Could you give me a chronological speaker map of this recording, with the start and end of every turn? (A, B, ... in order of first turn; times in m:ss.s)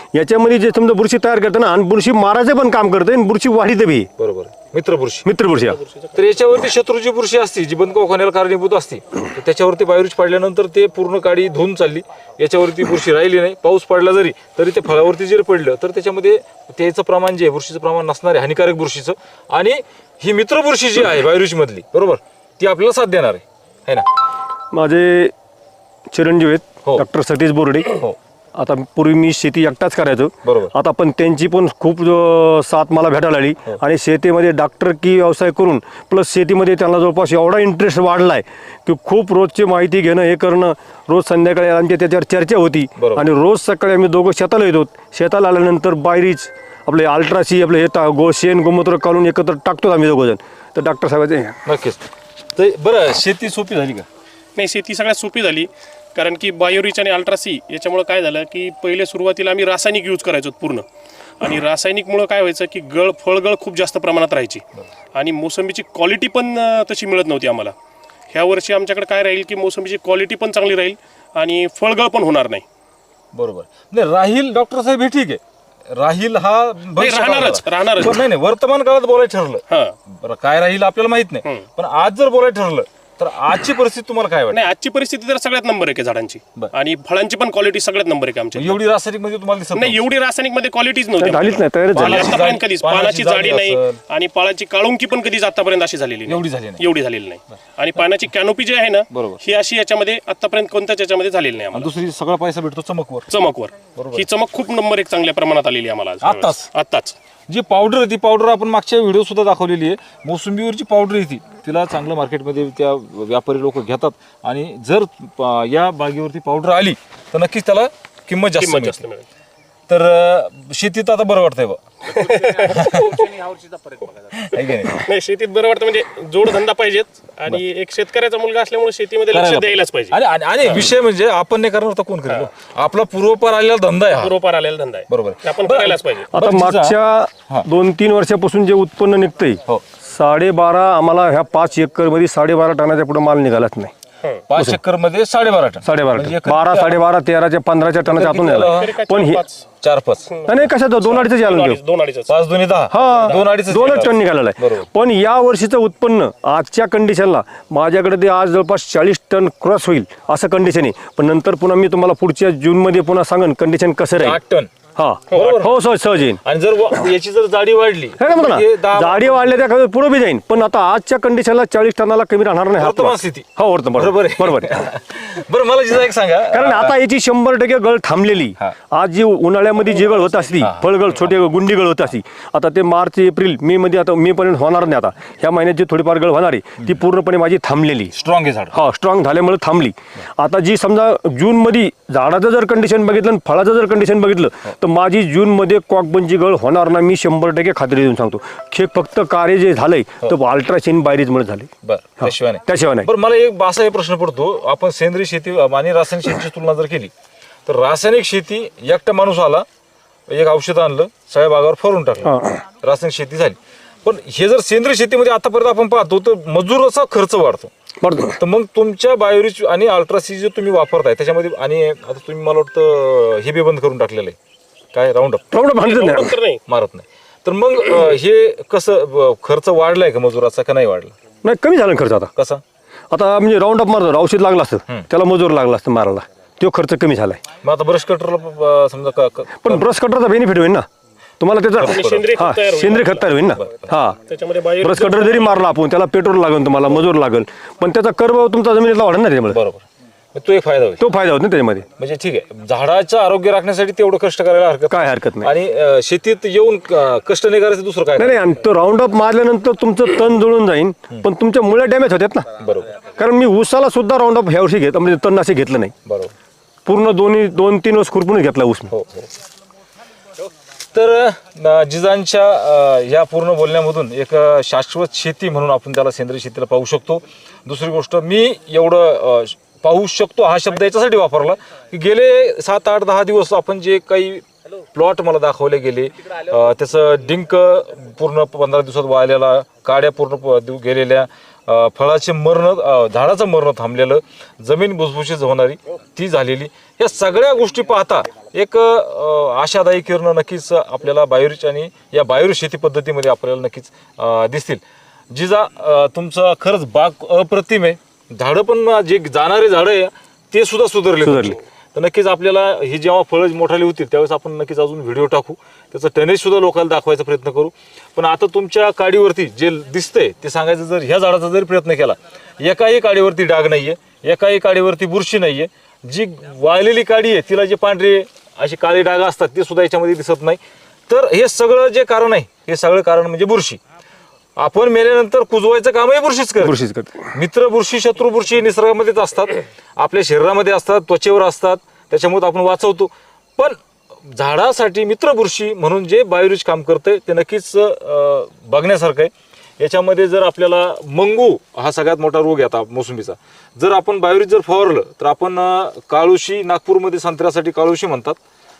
0:00.1-0:04.1 A
0:04.2-0:05.3 B
0:05.2-0:05.8 A
0:05.7-0:06.3 C
0:06.1-0:24.1 B
0:24.7-0:25.3 A
0:26.1-0:28.0 A
0:28.6-0:51.6 A
0:30.4-0:30.7 B
0:43.0-0:43.2 B
0:51.6-0:54.1 B
0:54.6-1:00.8 C
1:01.4-1:04.6 C
1:05.1-1:07.7 C
1:08.3-1:12.6 C
1:13.3-1:24.7 B
1:16.9-1:18.2 C
1:19.7-1:20.0 C
1:24.5-1:28.8 C
1:28.5-1:30.0 B
1:29.7-1:41.9 C
1:31.2-1:32.4 A
1:31.9-1:34.0 B
1:36.3-1:36.8 B
1:39.1-1:39.4 B
1:41.7-1:43.3 B
1:43.3-1:47.2 C
1:44.0-1:44.3 B
1:46.2-1:46.7 B
1:47.5-1:59.0 B
1:58.6-1:59.2 C
1:59.9-2:03.4 B
2:02.1-2:03.4 C
2:04.2-2:05.1 B
2:04.9-2:10.2 C
2:09.3-2:14.4 B
2:14.1-2:16.3 C
2:15.1-2:17.0 B
2:16.3-2:23.9 A
2:24.5-2:27.0 B
2:25.8-2:29.4 A
2:28.0-2:29.0 B
2:28.6-2:29.6 C
2:29.8-2:30.4 B
2:30.3-2:32.3 C
2:30.5-2:31.8 A
2:32.3-2:34.9 B
2:32.9-2:34.0 C
2:32.9-2:44.4 A
2:44.1-2:44.7 B
2:45.0-2:46.4 A
2:45.3-2:45.8 B
2:46.4-2:49.5 B
2:48.2-2:54.8 A
2:52.8-2:57.0 B
2:56.5-3:08.1 A
3:00.6-3:01.4 B
3:08.1-3:08.8 B
3:08.7-3:21.7 A
3:21.8-3:27.1 B
3:22.2-3:23.1 A
3:27.6-3:29.6 B
3:30.3-3:37.7 B
3:32.2-3:32.6 A
3:38.0-3:38.4 A
3:38.4-3:44.4 B
3:44.9-3:45.4 B
3:45.5-3:46.3 A
3:45.8-3:46.6 C
3:46.7-3:51.2 B
3:51.4-3:52.3 A
3:52.4-3:52.6 B
3:53.1-3:57.4 A
3:57.6-3:59.9 B
3:59.6-4:00.8 A
4:01.4-4:04.2 A
4:01.8-4:02.4 B
4:01.8-4:03.4 C
4:03.5-4:03.9 B
4:04.3-4:05.7 C
4:04.8-4:09.6 A
4:09.5-4:11.0 B
4:11.0-4:11.9 A
4:12.0-4:18.7 B
4:14.9-4:15.5 A
4:18.2-4:22.4 A
4:22.6-4:23.0 B
4:23.2-4:25.9 A
4:26.0-4:26.3 B
4:26.8-4:28.9 A
4:28.9-4:29.3 B
4:30.9-5:33.8 B
5:11.2-5:11.6 A
5:34.6-5:36.8 B
5:36.6-5:37.3 A
5:37.3-5:58.4 B